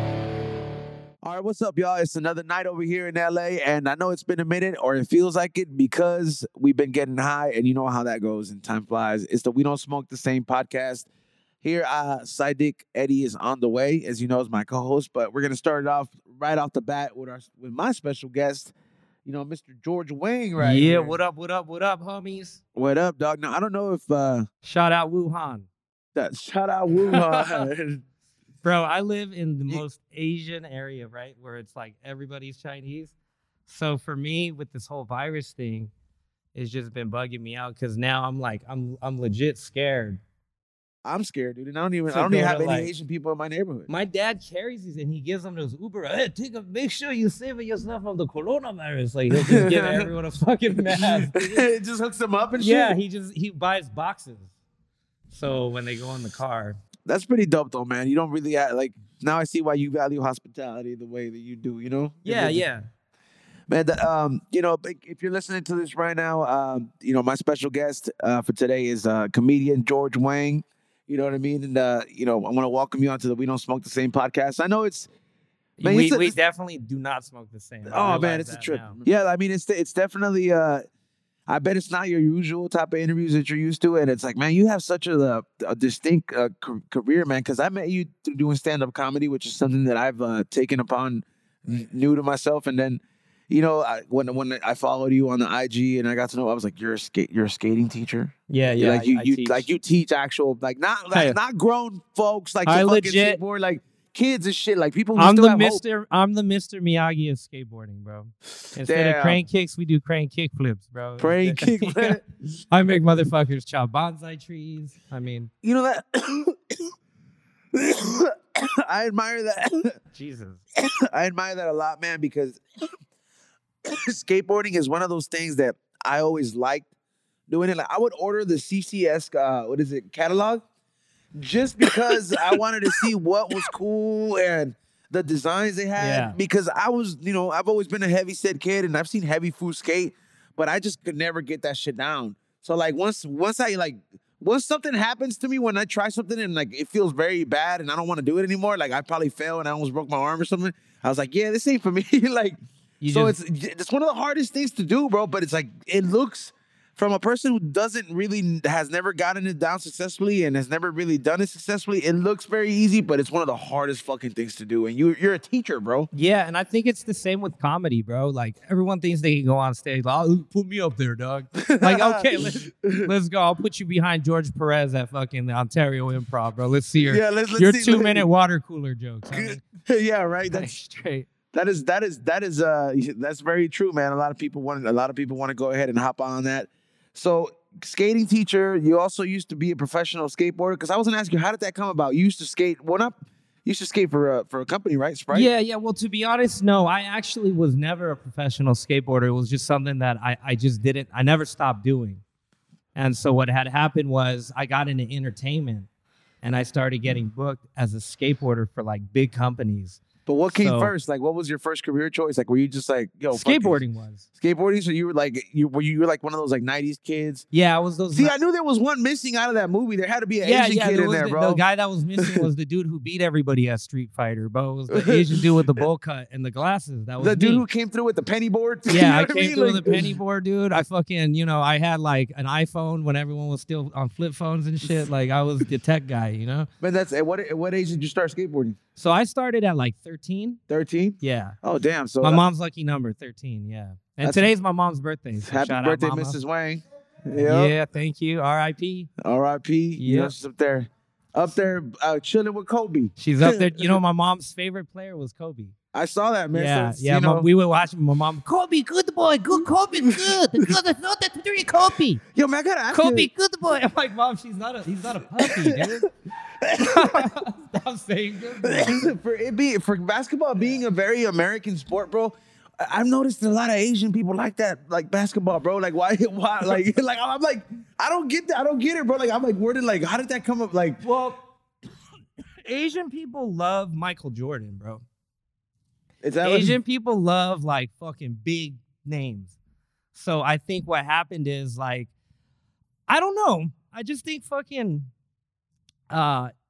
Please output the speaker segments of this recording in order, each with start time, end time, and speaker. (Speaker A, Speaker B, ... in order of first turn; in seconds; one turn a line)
Speaker A: 1.2-11.1
Speaker A: 11.6-18.7
Speaker A: 19.3-21.2
Speaker B: 20.6-22.6
Speaker A: 22.8-24.5
Speaker B: 24.6-25.7
Speaker A: 26.1-28.0
Speaker B: 27.0-27.7
Speaker B: 28.6-33.1
Speaker B: 33.7-35.9
Speaker B: 36.5-40.2
Speaker A: 41.0-43.9
Speaker B: 42.1-42.9
Speaker B: 43.9-51.6
Speaker A: 49.3-50.1
Speaker A: 50.9-53.0
Speaker B: 52.6-54.5
Speaker B: 55.3-56.8
Speaker A: 57.1-62.6
Speaker B: 62.2-62.9
Speaker A: 63.7-75.1
Speaker B: 75.8-79.0
Speaker A: 75.8-76.3
Speaker A: 77.9-80.9
Speaker A: 81.5-105.8
Speaker B: 98.5-99.6
Speaker B: 101.1-101.4
Speaker B: 102.7-103.4
Speaker B: 105.2-115.5
Speaker A: 108.9-109.4
Speaker A: 111.2-112.2
Speaker A: 115.6-116.9
Speaker A: 117.7-120.0
Speaker B: 120.1-120.6
Speaker A: 120.8-122.6
Speaker A: 123.8-126.9
Speaker A: 127.5-130.6
Speaker A: 131.3-152.6
Speaker B: 131.9-133.7
Speaker B: 136.0-136.4
Speaker B: 153.0-153.3
Speaker A: 153.1-166.1
Speaker B: 166.1-179.6
Speaker A: 171.6-173.1
Speaker A: 177.0-178.2
Speaker A: 179.3-180.7
Speaker B: 180.5-181.3
Speaker A: 181.5-195.5
Speaker B: 195.3-202.2
Speaker B: 203.0-205.9
Speaker B: 206.4-210.9
Speaker A: 210.3-213.8
Speaker B: 213.3-214.3
Speaker A: 214.4-217.5
Speaker B: 217.5-218.3
Speaker A: 218.2-221.6
Speaker B: 220.4-227.7
Speaker A: 222.2-222.5
Speaker A: 224.9-225.7
Speaker A: 227.2-230.2
Speaker B: 228.9-236.7
Speaker A: 236.8-238.8
Speaker B: 239.0-240.6
Speaker A: 240.7-242.4
Speaker B: 241.2-241.6
Speaker B: 242.2-246.4
Speaker A: 244.2-244.5
Speaker A: 245.4-247.8
Speaker B: 247.4-249.1
Speaker A: 249.2-254.0
Speaker B: 250.0-250.3
Speaker B: 253.2-255.7
Speaker A: 255.9-257.5
Speaker B: 256.5-262.2
Speaker A: 260.0-260.8
Speaker A: 262.3-263.3
Speaker B: 262.9-266.1
Speaker A: 265.4-266.1
Speaker A: 266.6-267.3
Speaker B: 266.6-269.1
Speaker A: 268.6-281.0
Speaker B: 281.0-281.4
Speaker B: 282.6-285.0
Speaker A: 286.2-286.8
Speaker B: 286.4-289.6
Speaker B: 290.1-292.1
Speaker B: 293.1-295.1
Speaker B: 296.1-296.5